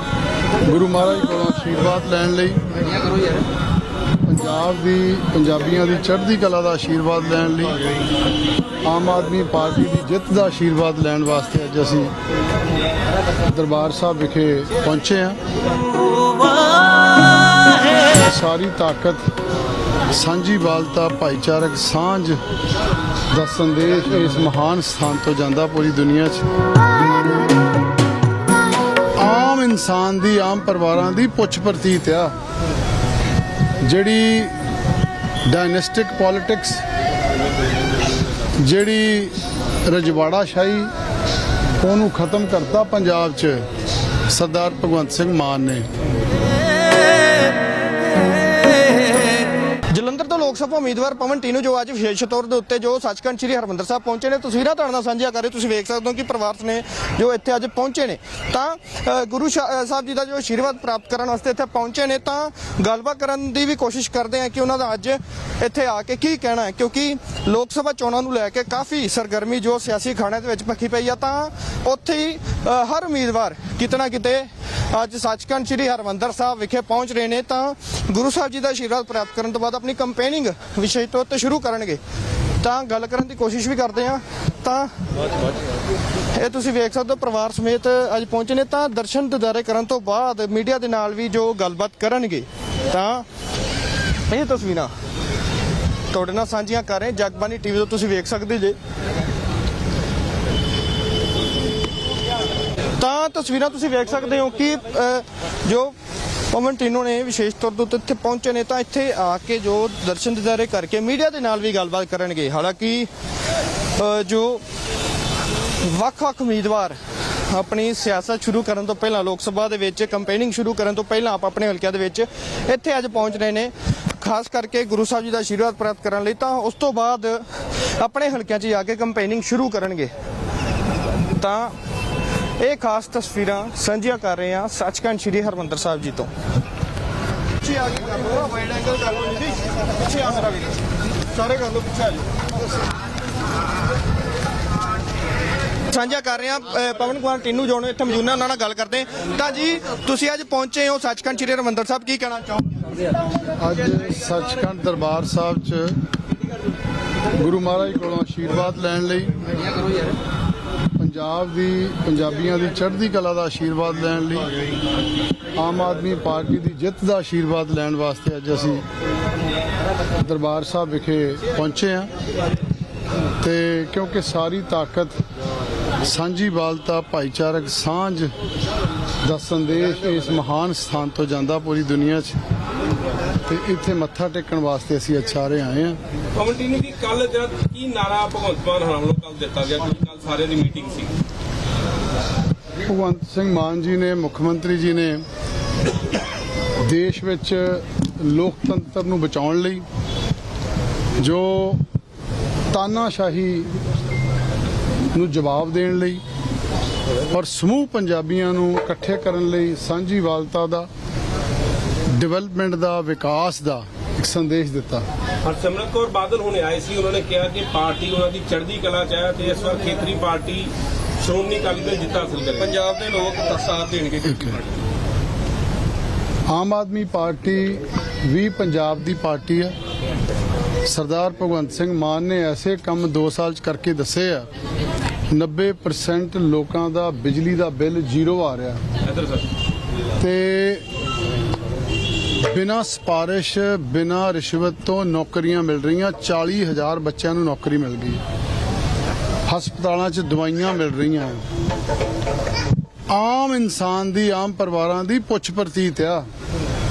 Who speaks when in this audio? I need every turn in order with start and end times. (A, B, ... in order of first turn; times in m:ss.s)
0:00.6-0:02.8 A
0:04.2-0:07.8 A
0:08.8-0:12.1 A
0:13.5-0:15.4 A
0:18.1-0:19.3 A
0:20.1-0:22.4 A
0:23.3-0:26.5 A
0:29.2-0:32.4 A
0:33.8-0:34.6 A
0:35.5-0:36.8 A
0:38.6-0:39.4 A
0:39.9-0:40.9 A
0:41.8-0:43.6 A
0:44.3-0:45.9 A
0:48.2-1:22.0 B
1:22.6-1:24.9 B
1:26.3-1:33.2 B
1:34.3-1:34.9 B
1:36.1-1:38.8 B
1:43.0-1:45.9 B
1:46.5-1:53.1 B
1:54.0-1:54.6 B
1:55.8-1:57.0 B
1:57.5-2:10.1 B
2:11.4-2:11.8 B
2:12.6-2:16.3 B
2:17.9-2:20.7 B
2:21.4-2:22.1 B
2:25.9-2:32.8 B
2:33.6-2:36.0 A
2:37.4-2:39.3 A
2:41.0-2:44.5 A
2:45.6-2:48.8 A
2:50.2-2:52.1 A
2:53.4-2:55.2 A
2:56.0-2:58.3 A
2:59.2-3:02.4 A
3:03.5-3:06.0 A
3:06.4-3:11.2 C
3:12.8-3:15.2 A
3:16.8-3:19.8 A
3:21.2-3:21.8 A
3:22.7-3:23.7 A
3:25.1-3:26.2 A
3:27.3-3:30.9 A
3:32.1-3:35.1 A
3:35.4-3:42.8 C
3:42.6-3:44.6 B
3:46.5-3:49.8 A
3:50.8-3:54.5 A
3:55.3-3:58.8 A
3:59.0-3:59.5 C
4:00.2-4:00.9 A
4:02.4-4:08.2 A
4:09.5-4:11.4 A
4:13.1-4:16.2 A